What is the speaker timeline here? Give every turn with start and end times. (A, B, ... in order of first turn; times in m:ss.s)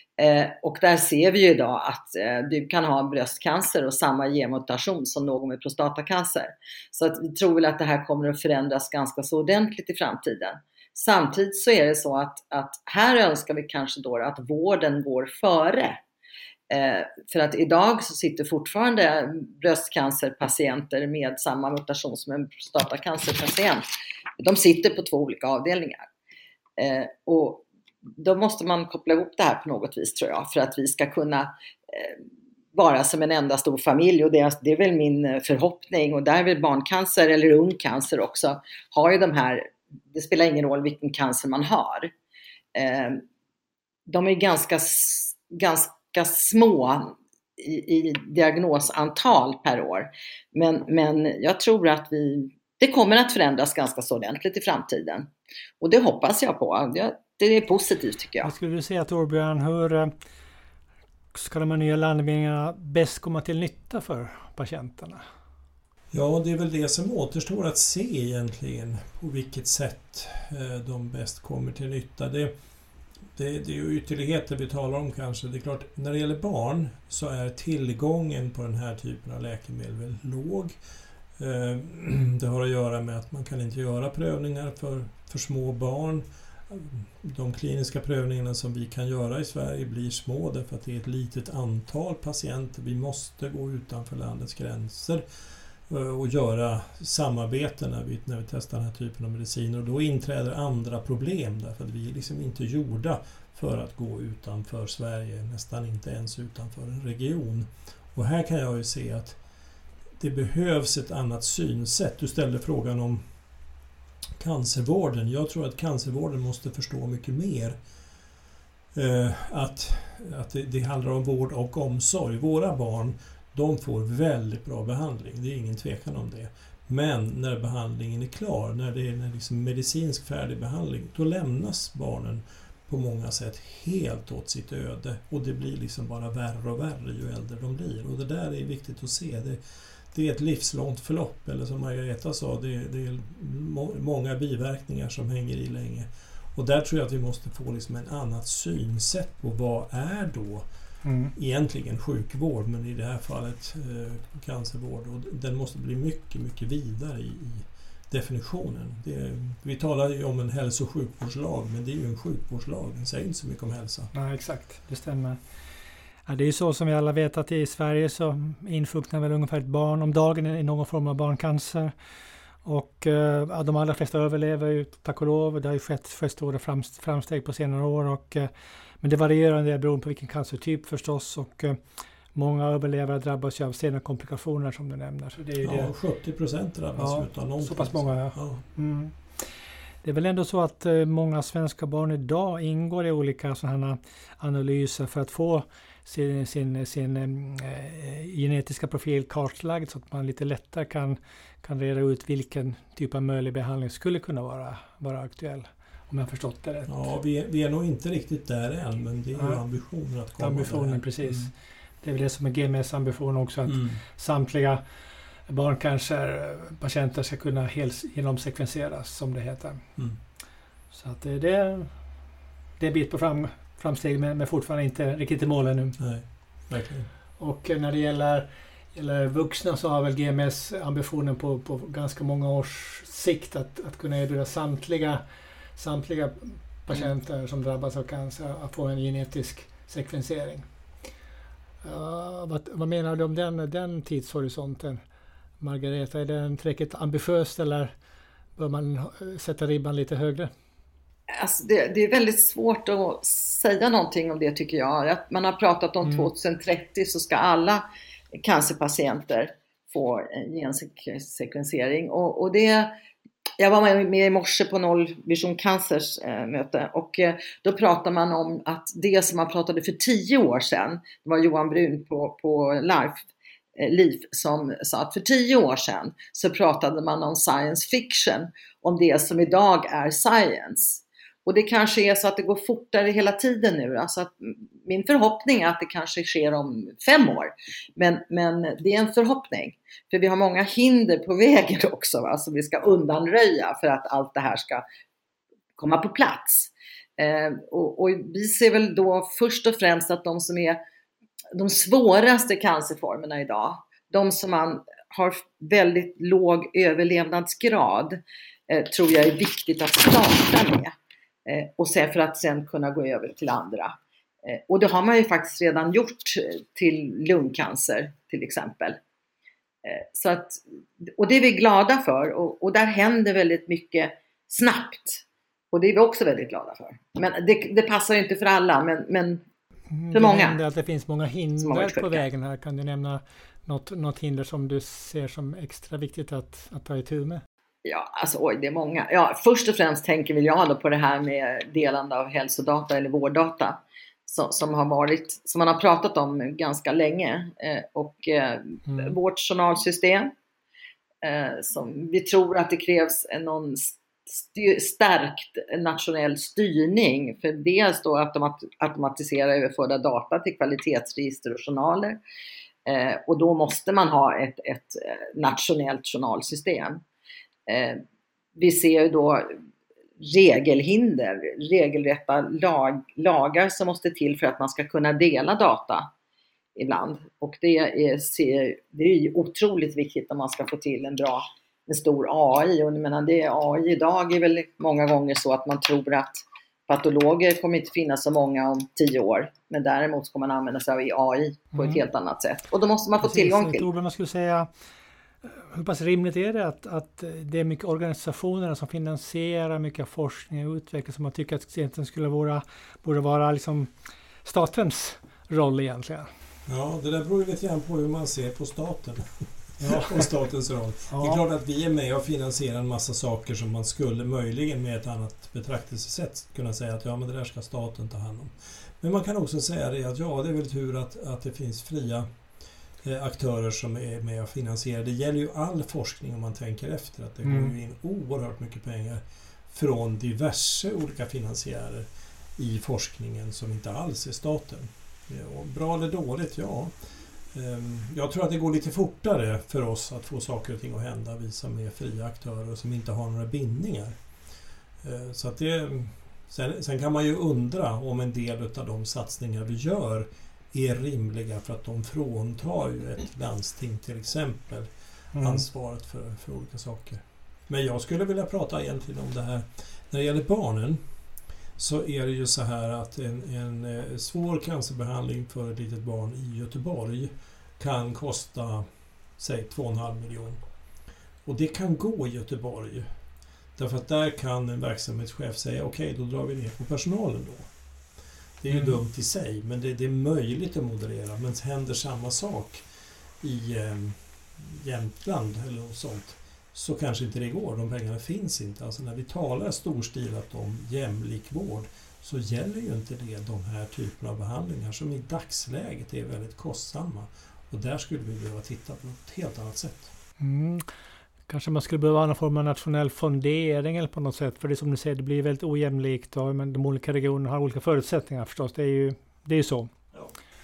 0:00.2-0:16.0 A
0:16.7-0:23.8 A
0:24.4-0:26.0 A
0:26.8-0:27.6 A
0:28.2-0:32.2 A
0:32.7-0:42.1 A
0:42.7-0:43.2 A
0:44.1-0:58.5 A
0:58.4-1:00.1 B
1:01.3-1:05.2 B
1:06.1-1:12.5 C
1:13.3-1:20.8 C
1:21.4-1:35.2 C
1:35.8-1:49.4 C
1:50.2-1:53.2 C
1:54.4-1:57.8 C
1:58.9-2:19.6 C
2:20.1-2:30.6 C
2:31.0-2:31.3 B
2:31.3-2:44.1 C
2:44.1-2:45.5 B
2:46.2-2:51.9 B
2:52.6-3:05.9 B
3:05.6-3:08.6 C
3:07.0-3:09.5 B
3:10.0-3:27.1 B
3:26.9-3:31.5 C
3:30.4-3:34.8 B
3:33.7-3:34.0 C
3:35.5-3:40.0 B
3:40.9-3:42.1 B
3:42.8-3:46.0 B
3:46.0-3:47.1 C
3:47.4-3:55.2 B
3:55.7-4:00.7 B
4:01.8-4:05.0 B
4:05.6-4:07.9 B
4:08.6-4:10.5 B
4:11.3-4:23.0 A
4:23.6-4:54.8 A
4:55.8-5:00.8 A
5:01.5-5:10.9 A
5:11.4-5:13.9 A
5:14.4-5:19.0 A
5:19.8-5:29.4 A
5:29.9-5:37.4 B
5:30.1-5:30.6 A
5:31.6-5:32.2 A
5:37.8-5:50.3 A
5:51.2-6:02.2 A
6:02.8-6:07.0 A
6:07.7-6:08.0 A
6:08.6-6:09.6 A
6:10.2-6:16.1 A
6:16.8-6:33.9 A
6:31.7-6:32.0 B
6:33.2-6:34.7 B
6:35.4-6:43.9 B
6:44.4-6:46.3 B
6:46.7-7:02.3 C
6:49.8-6:50.3 B
6:51.1-6:51.4 B
7:03.0-7:24.2 C
7:07.4-7:07.7 B
7:25.0-7:41.0 C
7:35.3-7:35.6 B
7:41.8-7:48.8 C
7:49.4-7:50.6 C
7:51.4-7:53.1 C
7:53.8-7:57.7 C
7:58.6-8:02.8 C
8:03.4-8:20.1 C
8:20.4-8:20.8 B
8:21.5-8:29.9 B